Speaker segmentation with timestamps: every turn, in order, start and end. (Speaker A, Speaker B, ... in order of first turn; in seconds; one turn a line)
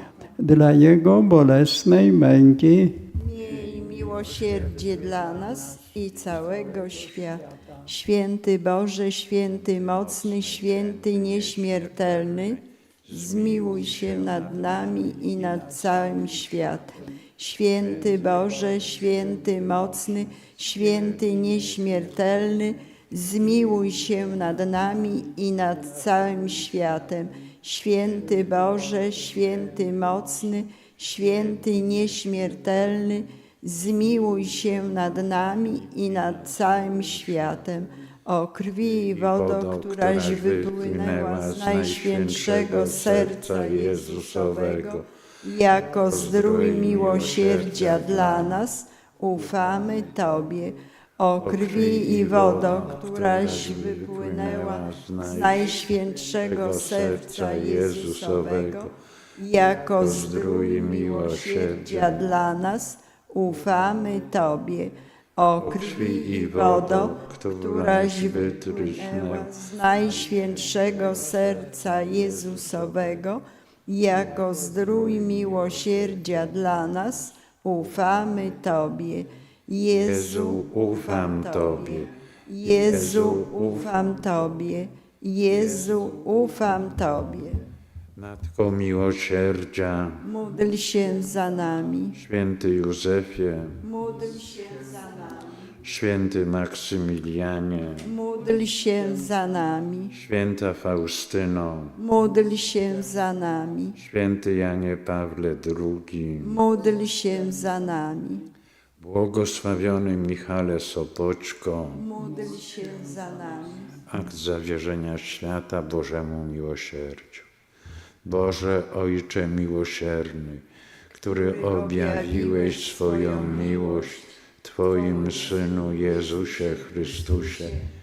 Speaker A: 0.4-3.1
Speaker B: 3.2-87.6
Speaker A: 4.6-5.1
Speaker A: 6.7-7.0
Speaker C: 9.4-16.2
Speaker C: 17.9-20.4
Speaker C: 38.9-45.0
Speaker C: 45.9-48.6
Speaker C: 51.4-55.8
Speaker C: 56.3-58.9
Speaker C: 59.9-62.3
Speaker C: 65.6-69.5
Speaker C: 70.5-71.0
Speaker C: 72.1-72.8
Speaker C: 80.0-82.1
Speaker C: 82.6-84.1
Speaker C: 88.2-90.3
Speaker B: 90.2-92.2
Speaker C: 92.1-93.8
Speaker B: 93.8-95.5
Speaker C: 95.8-98.1
Speaker B: 98.1-100.1
Speaker C: 100.1-102.0
Speaker B: 102.0-104.0
Speaker C: 104.0-106.6
Speaker B: 106.4-108.5
Speaker C: 109.0-112.1
Speaker B: 112.0-114.0
Speaker C: 114.0-117.5
Speaker C: 118.2-127.8
Speaker B: 121.5-124.0